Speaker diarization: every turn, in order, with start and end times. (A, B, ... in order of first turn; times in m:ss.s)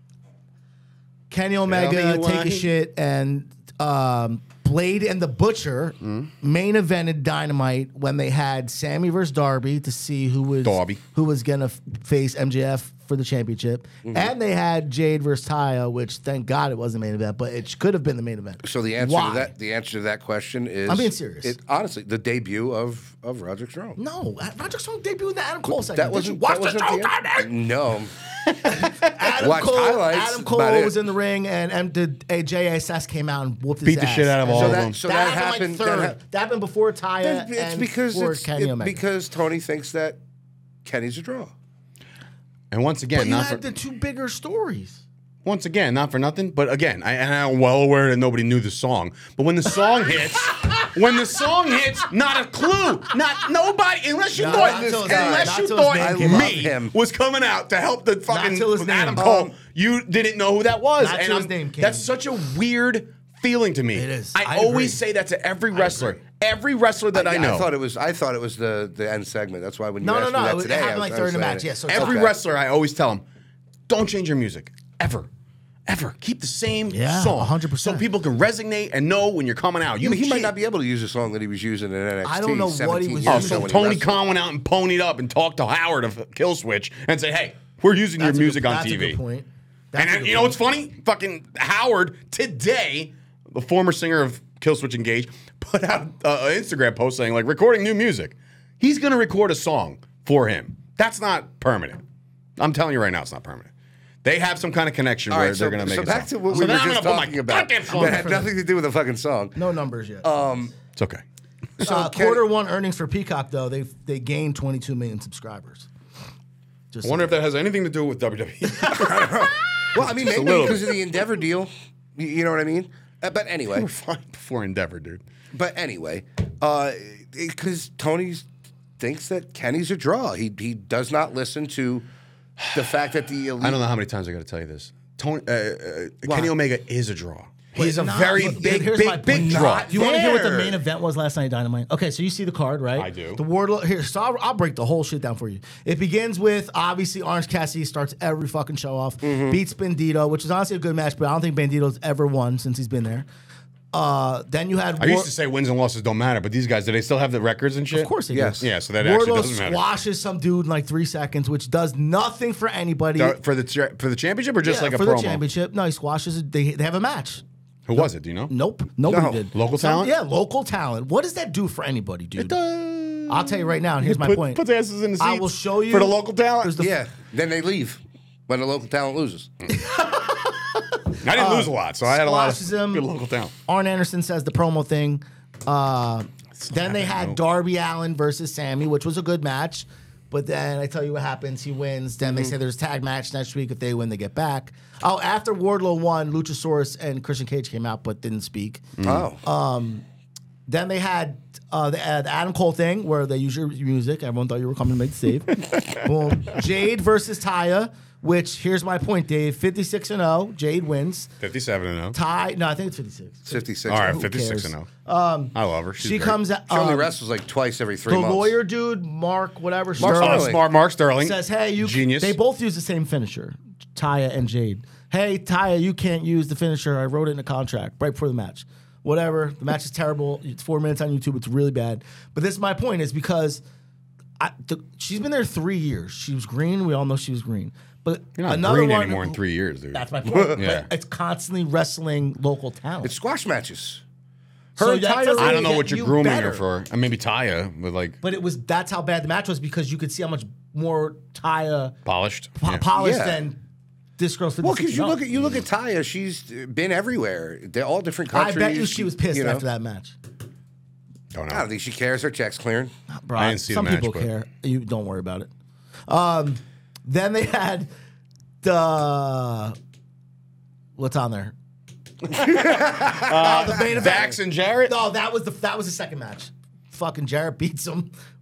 0:01.3-0:19.5 A
0:01.7-0:02.7 B
0:06.0-0:06.3 B
0:10.6-0:11.0 B
0:14.0-0:14.3 C
0:18.6-0:24.0 C
0:20.9-0:21.5 A
0:24.0-0:27.5 A
0:25.7-0:28.1 C
0:28.6-0:29.3 B
0:28.6-0:39.0 A
0:29.4-0:31.0 C
0:33.8-0:35.0 B
0:34.5-0:36.1 C
0:37.2-0:40.2 C
0:40.8-0:41.5 C
0:42.7-0:43.6 B
0:43.1-0:45.0 A
0:45.4-1:07.7 B
0:50.5-0:50.9 A
0:54.3-0:56.5 A
0:54.4-0:56.9 C
0:58.3-0:59.3 A
0:59.2-0:59.5 C
1:01.0-1:02.1 A
1:03.9-1:05.0 A
1:05.7-1:06.2 A
1:07.1-1:12.3 C
1:10.0-1:12.3 A
1:11.9-1:13.2 B
1:13.9-1:15.3 B
1:15.9-1:20.5 B
1:16.9-1:18.0 A
1:20.0-1:24.2 C
1:22.2-1:23.7 A
1:23.2-1:29.2 B
1:28.2-1:30.6 A
1:30.0-1:42.0 B
1:42.6-1:43.7 B
1:44.2-1:48.3 B
1:45.3-1:49.6 C
1:47.9-1:48.5 A
1:49.6-1:50.5 A
1:50.2-1:50.7 C
1:51.0-1:51.2 B
1:51.8-1:52.4 C
1:51.8-1:55.9 A
1:56.9-1:57.3 A
1:57.0-2:01.0 B
1:58.9-2:03.9 C
2:03.7-2:05.2 B
2:05.5-2:08.5 C
2:09.0-2:12.1 C
2:12.6-2:12.8 B
2:12.7-2:13.8 C
2:13.6-2:19.9 B
2:16.2-2:16.5 C
2:17.8-2:33.3 A
2:19.3-2:20.8 C
2:23.0-2:23.4 B
2:29.2-2:29.6 C
2:33.9-2:35.3 A
2:35.0-2:39.8 B
2:37.9-2:43.4 A
2:38.3-2:38.6 C
2:43.2-2:45.4 B
2:44.6-2:52.5 A
2:47.9-2:48.5 B
2:49.0-2:49.4 C
2:49.5-2:50.1 B
2:52.4-2:56.7 B
2:53.3-2:54.6 A
2:55.2-2:57.0 A
2:56.8-2:59.5 C
2:59.7-3:03.1 A
3:01.2-3:03.5 B
3:03.6-3:20.0 A
3:06.6-3:07.4 B
3:12.2-3:12.5 C
3:19.0-3:19.3 B
3:19.0-3:19.4 C
3:20.7-3:31.3 A
3:31.4-3:32.2 B
3:32.1-3:37.1 A
3:33.4-3:34.2 C
3:33.9-3:34.9 B
3:35.5-3:36.4 B
3:36.7-3:38.5 C
3:38.1-3:40.6 A
3:40.0-3:40.6 C
3:40.0-3:42.4 B
3:41.2-3:53.6 A
3:54.4-3:59.4 A
3:58.4-4:00.0 B
3:59.9-4:03.1 A
4:00.2-4:00.6 C
4:00.6-4:00.9 B
4:03.0-4:04.0 C
4:04.8-4:05.7 C
4:04.8-4:06.6 A
4:05.4-4:08.2 B
4:08.2-4:11.9 A
4:12.0-4:12.8 B
4:12.6-4:13.6 A
4:13.0-4:13.4 C
4:14.2-4:15.3 A
4:14.6-4:19.6 C
4:18.3-4:20.2 A
4:21.3-4:21.7 B
4:21.5-4:22.9 C
4:23.1-4:25.5 A
4:23.4-4:24.3 B
4:26.1-4:27.9 A
4:28.6-4:29.8 A
4:31.0-4:31.5 A
4:32.3-4:34.2 C
4:32.4-4:34.9 B
4:33.0-4:38.1 A